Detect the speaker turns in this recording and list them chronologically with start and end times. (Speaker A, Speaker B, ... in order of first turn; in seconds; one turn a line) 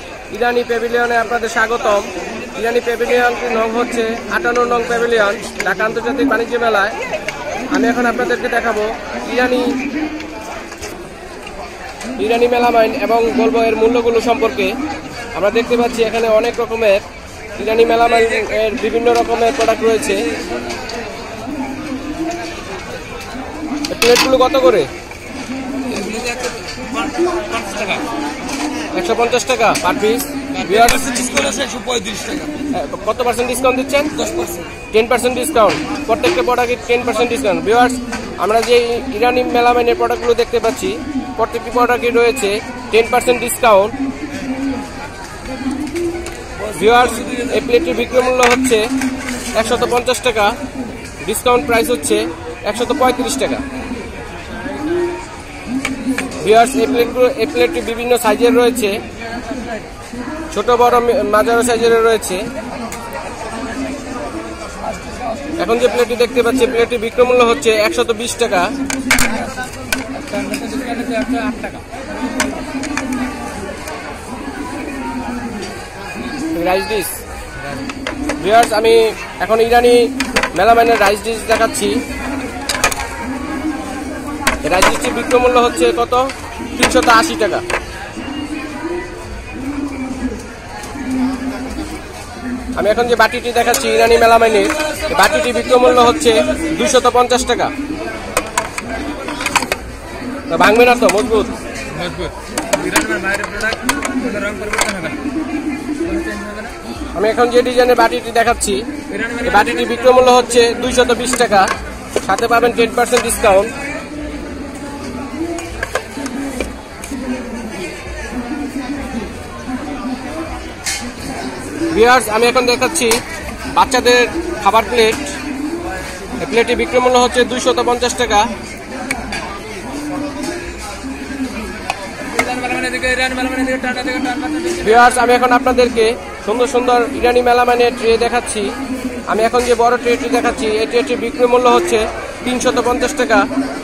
Speaker A: 0.3-7.0
Speaker A: 7.7-9.8
Speaker A: 12.2-14.8
Speaker A: 15.3-20.2
Speaker A: 23.9-24.9
Speaker B: 25.9-26.8
Speaker B: 27.5-28.0
Speaker A: 28.9-31.3
Speaker B: 30.7-32.5
Speaker A: 32.7-34.2
Speaker A: 34.9-43.9
Speaker A: 46.7-48.9
Speaker A: 49.5-50.6
Speaker A: 51.2-53.6
Speaker A: 56.4-59.0
Speaker A: 60.5-62.5
Speaker A: 65.6-68.7
Speaker B: 70.2-71.8
Speaker A: 76.5-77.2
Speaker A: 78.4-82.0
Speaker A: 84.6-87.6
Speaker A: 92.8-97.7
Speaker A: 100.5-101.5
Speaker B: 102.0-105.2
Speaker B: 106.0-106.8
Speaker A: 107.1-113.7
Speaker B: 109.1-109.9
Speaker A: 121.9-123.2
Speaker A: 123.7-125.3
Speaker A: 126.4-128.5
Speaker B: 132.3-135.0
Speaker A: 134.8-138.7
Speaker A: 139.3-143.5